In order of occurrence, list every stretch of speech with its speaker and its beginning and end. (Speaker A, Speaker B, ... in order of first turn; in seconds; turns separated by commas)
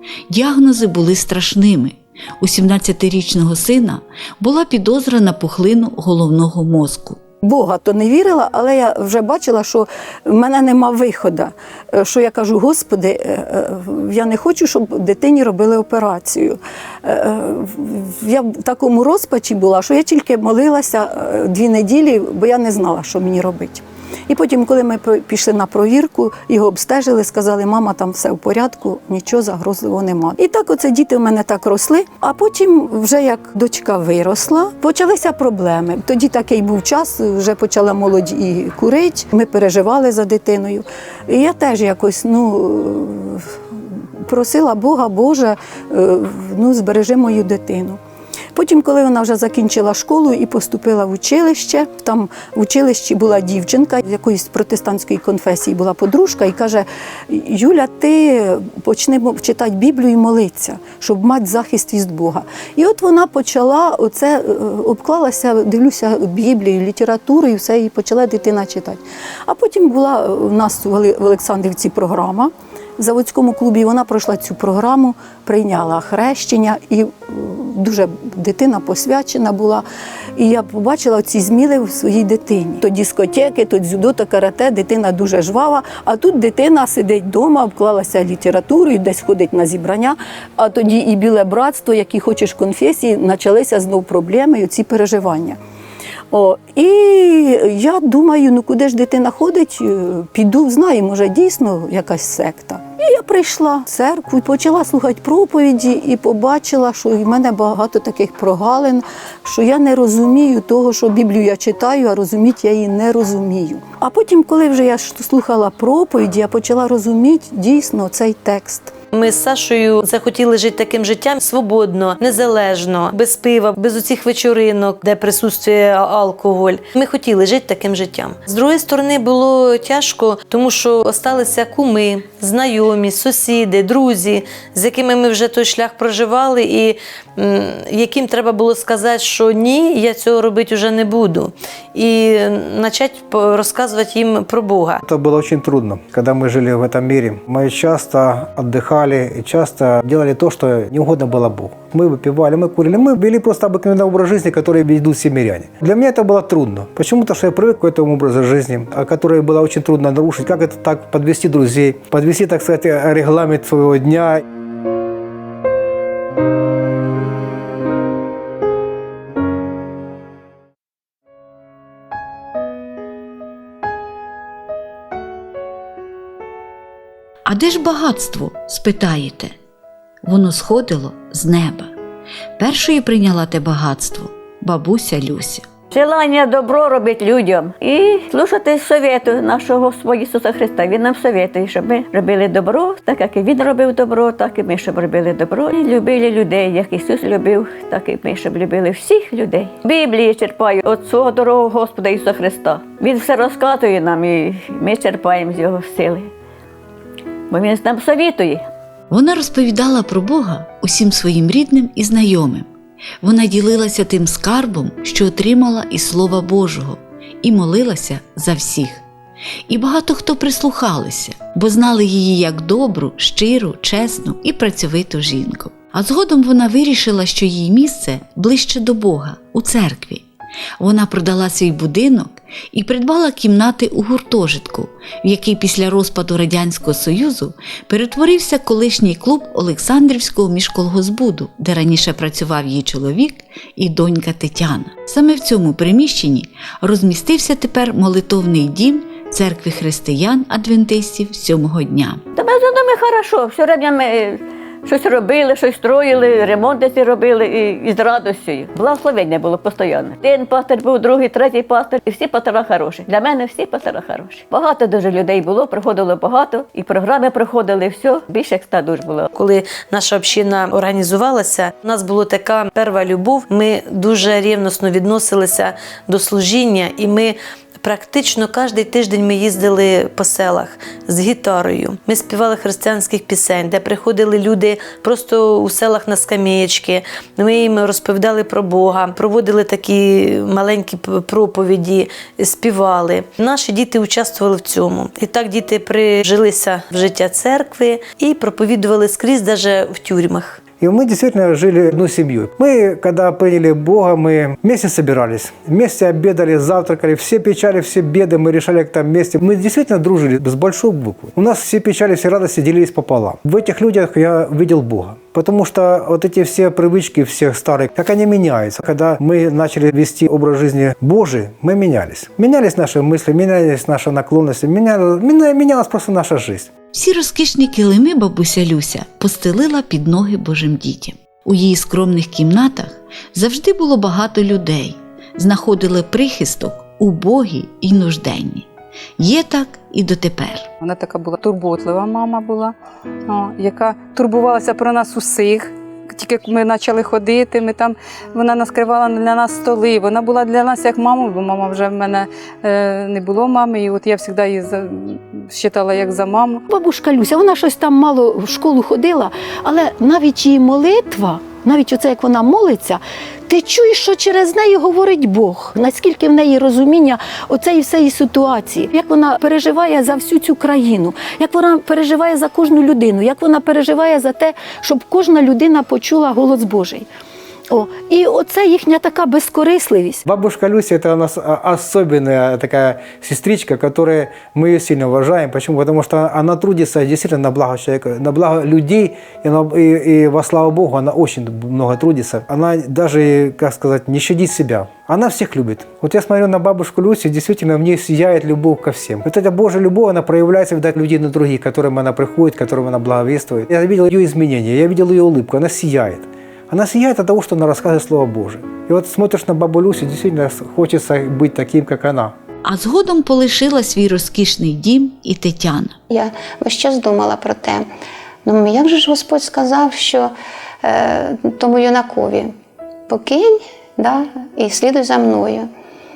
Speaker A: 0.3-7.2, Speaker B: 7.4-48.0, Speaker B: 48.5-79.8, Speaker B: 80.3-95.6, Speaker B: 96.3-118.9, Speaker C: 119.1-145.0, Speaker D: 145.0-164.4, Speaker A: 177.4-179.5, Speaker A: 180.2-181.9, Speaker A: 182.6-185.7, Speaker E: 185.9-206.3, Speaker E: 207.5-208.7, Speaker A: 209.1-212.7, Speaker A: 213.2-219.0, Speaker A: 219.7-230.3, Speaker A: 230.8-252.2, Speaker E: 252.3-269.3, Speaker C: 269.3-300.6, Speaker D: 300.8-326.7, Speaker A: 326.9-338.7, Speaker A: 339.2-340.7, Speaker F: 340.8-342.7, Speaker F: 343.2-356.6, Speaker B: 356.7-377.1, Speaker B: 377.7-380.2, Speaker D: 380.2-412.3, Speaker A: 412.6-415.9, Speaker G: 416.1-417.9, Speaker G: 418.4-420.3, Speaker G: 420.8-422.5, Speaker G: 423.1-425.7